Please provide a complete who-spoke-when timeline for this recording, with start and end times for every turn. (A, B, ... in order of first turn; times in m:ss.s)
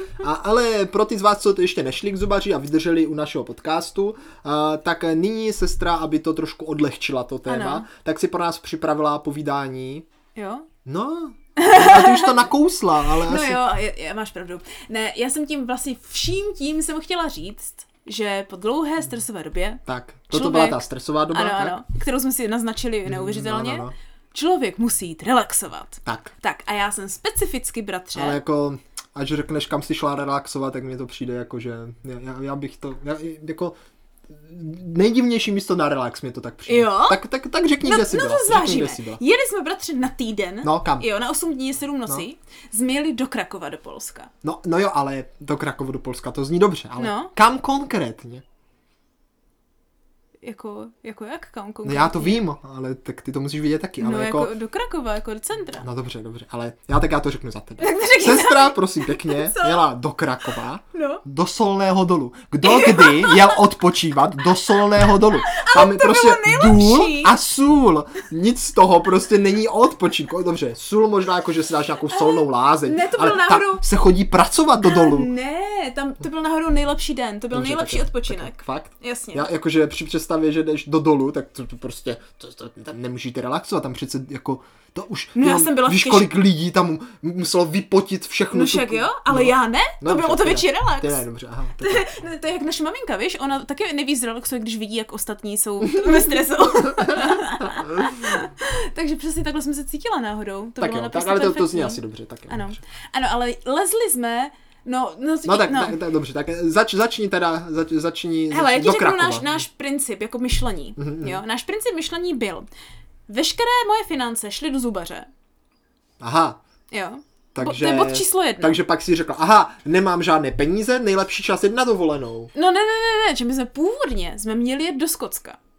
0:00.2-0:10.0 A
0:07.4-0:07.8 B
0:10.3-0:10.7 B
0:10.8-0:13.6 A
0:11.6-0:12.4 B
0:13.1-0:20.8 B
0:19.8-0:21.8 A
0:21.3-0:28.4 B
0:23.0-0:23.9 A
0:26.0-0:26.3 A
0:28.1-0:33.8 A
0:34.3-0:39.2 A
0:36.7-0:37.2 B
0:37.8-0:44.3 B
0:40.6-0:41.1 A
0:44.4-0:48.4 A
0:47.0-0:47.3 B
0:50.4-0:52.4 B
0:51.8-0:54.5 A
0:54.0-0:55.8 B
0:55.8-1:15.3 A
0:57.8-0:59.9 B
1:00.9-1:01.2 B
1:02.6-1:03.6 B
1:05.2-1:07.3 B
1:12.1-1:13.8 B
1:14.8-1:19.5 B
1:17.5-1:32.1 A
1:25.3-1:26.3 B
1:28.5-1:31.2 B
1:31.8-1:46.0 B
1:36.9-1:38.2 A
1:40.8-1:42.8 A
1:45.4-1:49.6 A
1:48.5-1:52.7 B
1:51.0-1:51.4 A
1:53.3-1:55.3 B
1:56.2-1:56.6 A
1:56.9-1:58.8 B
1:57.5-2:02.5 A
2:02.5-2:05.6 B